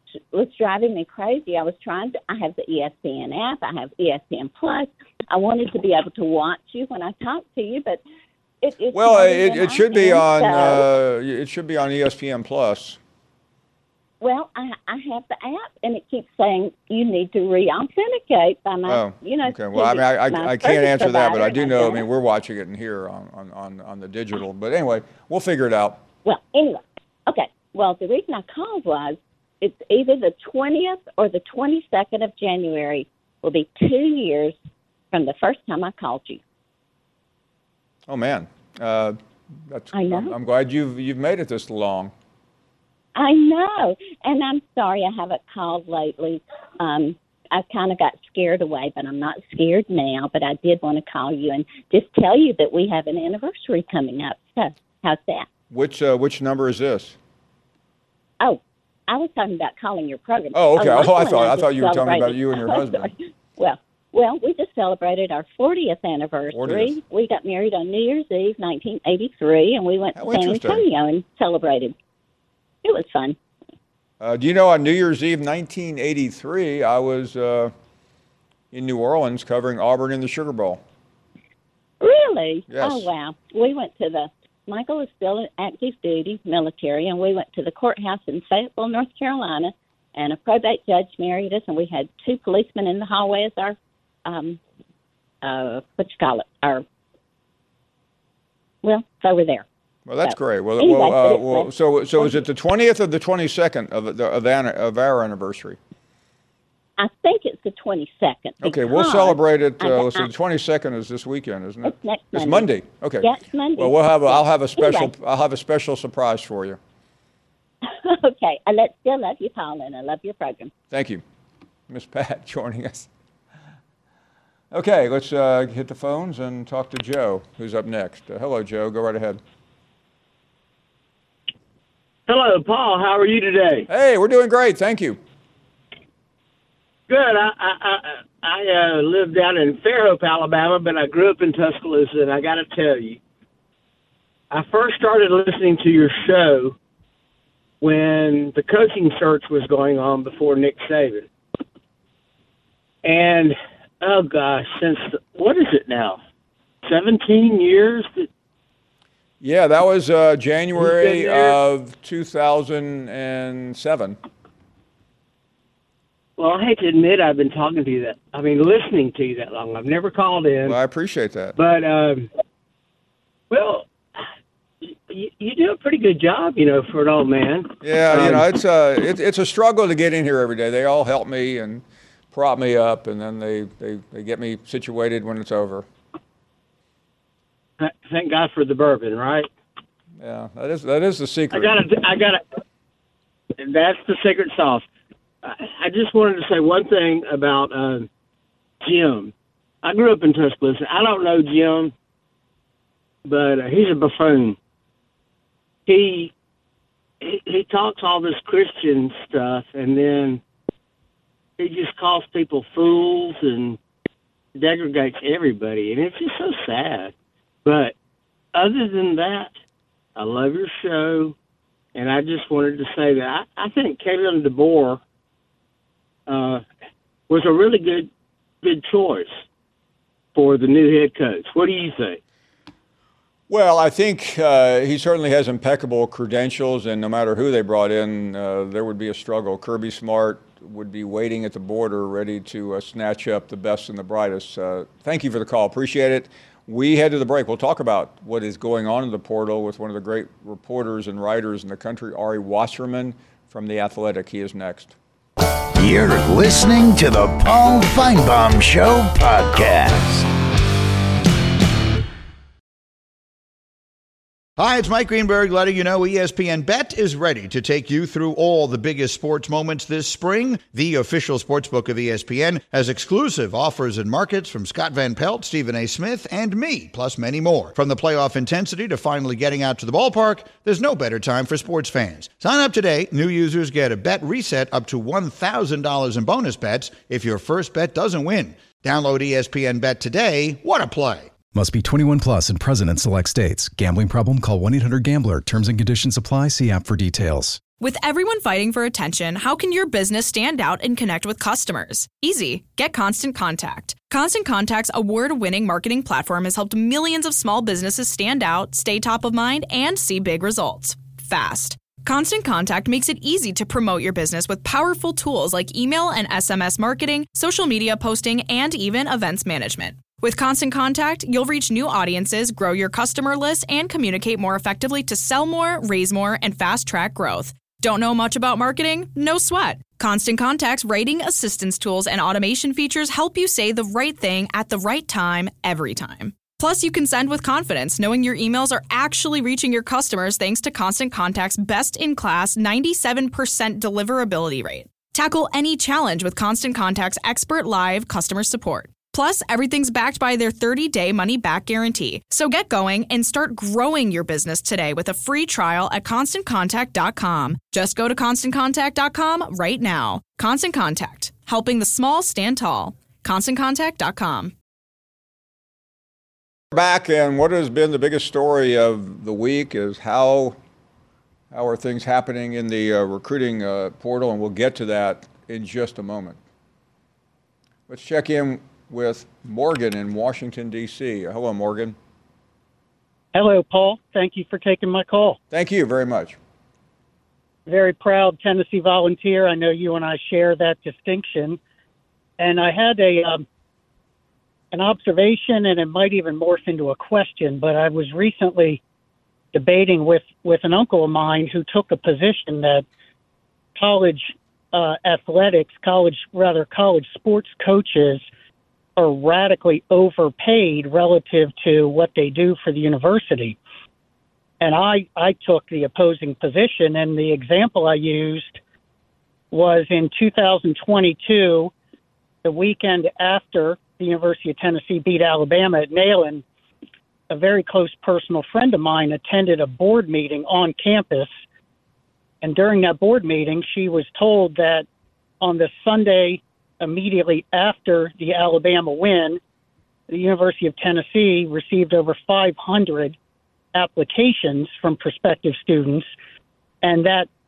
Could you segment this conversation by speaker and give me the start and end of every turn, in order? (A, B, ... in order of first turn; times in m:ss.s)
0:00.3-0:08.0 A
0:08.6-0:10.9 A
0:08.9-0:13.0 B
0:14.2-0:22.1 A
0:18.8-0:26.0 B
0:26.2-0:34.5 A
0:35.1-0:36.4 A
0:38.1-0:42.1 B
0:39.9-0:40.3 A
0:43.2-0:55.5 A
0:55.7-0:57.2 B
0:58.4-1:11.9 A
1:00.5-1:03.1 B
1:06.5-1:07.0 B
1:10.2-1:10.8 B
1:12.8-1:13.4 A
1:14.2-1:17.7 B
1:18.7-1:20.8 B
1:22.0-1:34.6 A
1:22.7-1:23.1 B
1:35.4-1:36.8 A
1:38.8-1:39.6 A
1:40.0-1:45.8 B
1:40.2-1:42.4 A
1:47.0-1:50.3 A
1:48.6-1:56.8 B
1:51.8-1:55.1 A
1:57.8-2:00.7 A
2:00.9-2:01.2 B
2:01.9-2:03.1 B
2:04.7-2:09.4 B
2:12.3-2:13.9 C
2:13.9-2:15.2 B
2:17.1-2:23.2 C
2:24.5-2:26.8 C
2:27.8-2:31.3 C
2:33.0-2:36.2 C
2:36.8-2:38.3 C
2:39.4-2:44.2 B
2:40.7-2:41.6 C
2:46.4-2:50.8 C
2:50.6-2:51.5 B
2:51.6-2:52.3 C
2:53.5-2:53.9 C
2:54.8-2:58.5 C
2:57.8-3:05.8 B
3:07.8-3:09.5 C
3:10.2-3:11.8 B
3:11.5-3:12.4 C
3:13.6-3:14.8 C
3:15.4-3:18.1 C
3:18.8-3:21.9 C
3:23.2-3:24.6 C
3:25.8-3:26.3 C
3:27.2-3:30.4 C
3:31.6-3:33.8 C
3:34.6-3:37.1 C
3:37.6-3:37.9 C
3:38.5-3:39.5 C
3:40.2-3:41.3 C
3:41.9-3:45.0 C
3:46.3-3:46.6 C
3:47.3-3:48.1 C
3:48.6-3:49.3 C
3:50.3-3:52.2 C
3:53.5-4:14.9 B
4:15.8-4:20.3 D
4:24.6-4:51.3 E
4:51.5-4:57.6 F
4:57.8-6:04.5 G
6:06.7-6:10.6 B
6:11.5-6:16.4 B
6:17.9-6:21.9 B
6:23.3-6:25.4 H
6:25.5-6:26.4 B
6:27.7-6:31.6 H
6:32.4-6:33.4 H
6:34.7-6:38.8 H
6:39.5-6:42.8 H
6:43.8-6:48.2 H
6:49.0-6:53.6 H
6:54.6-6:58.6 H
6:59.5-7:01.7 H
7:02.4-7:06.4 H
7:07.3-7:11.3 H
7:12.4-7:14.8 H
7:15.4-7:19.4 H
7:20.1-7:23.2 H
7:23.7-7:26.1 H
7:26.8-7:27.3 H